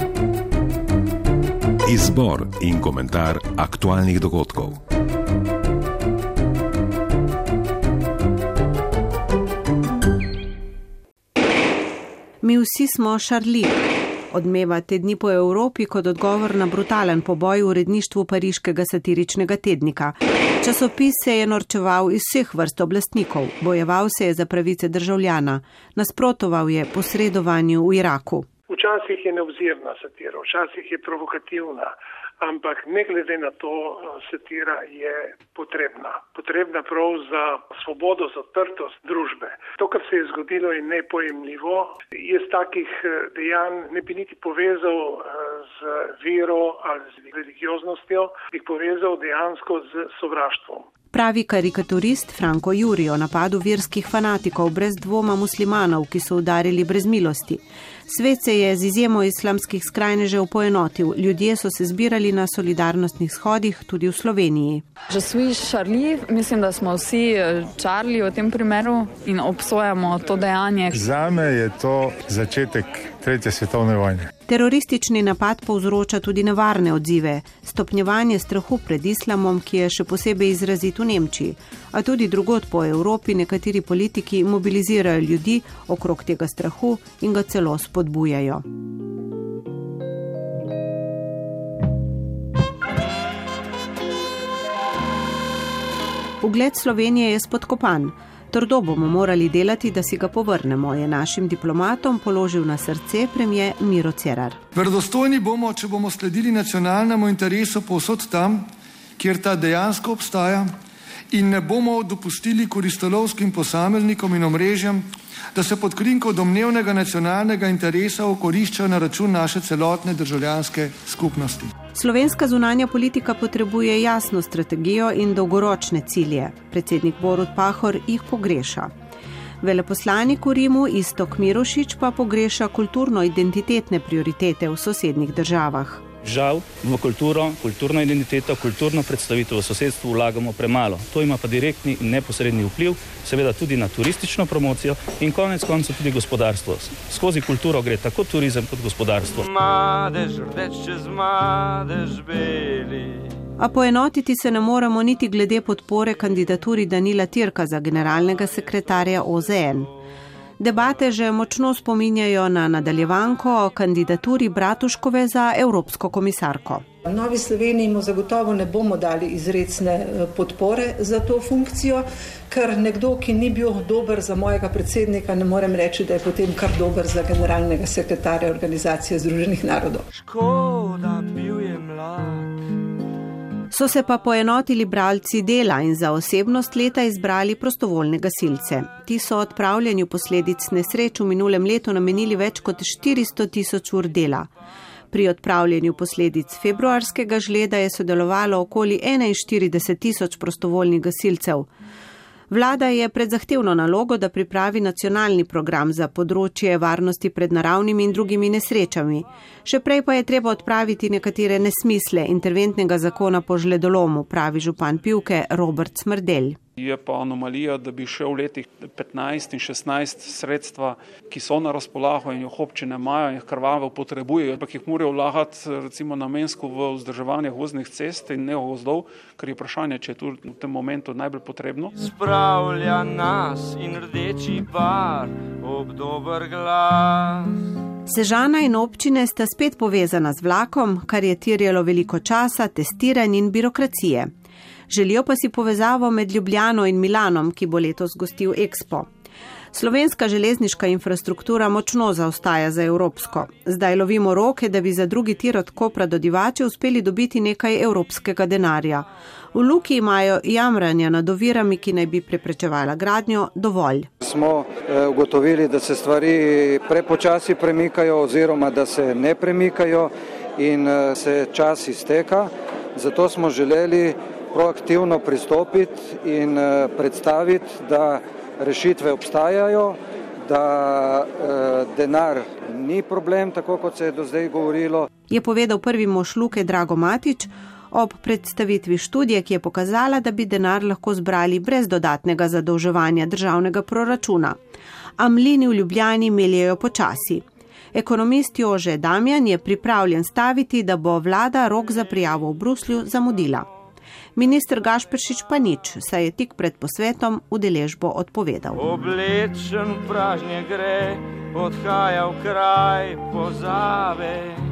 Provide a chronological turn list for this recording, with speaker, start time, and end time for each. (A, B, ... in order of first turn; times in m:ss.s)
0:01.9-0:04.8 A
0:12.4-0:13.8 B
0:14.3-0:28.5 B
0:28.7-0:50.8 C
0:51.1-1:04.8 B
1:05.1-1:11.1 D
1:11.7-1:14.1 E
1:14.5-1:28.6 B
1:36.4-1:44.6 B
1:44.7-1:48.6 F
1:49.2-1:50.7 F
1:51.3-2:01.7 F
2:01.9-2:08.9 B
2:09.6-2:16.0 B
2:16.2-2:29.5 G
2:29.4-2:33.2 H
2:33.6-2:39.9 B
2:40.6-2:46.8 B
2:47.0-3:00.0 I
3:00.2-3:02.5 H
3:03.7-3:14.5 B
3:15.1-3:21.7 B
3:22.5-3:36.6 B
3:36.8-3:51.9 J
3:52.0-3:57.4 H
3:58.1-4:04.3 B
4:04.9-4:09.1 B
4:09.7-4:24.1 B
4:24.2-4:45.1 K
4:45.3-4:54.6 B
4:55.2-5:03.7 B
5:04.4-5:08.8 B
5:08.8-5:14.6 H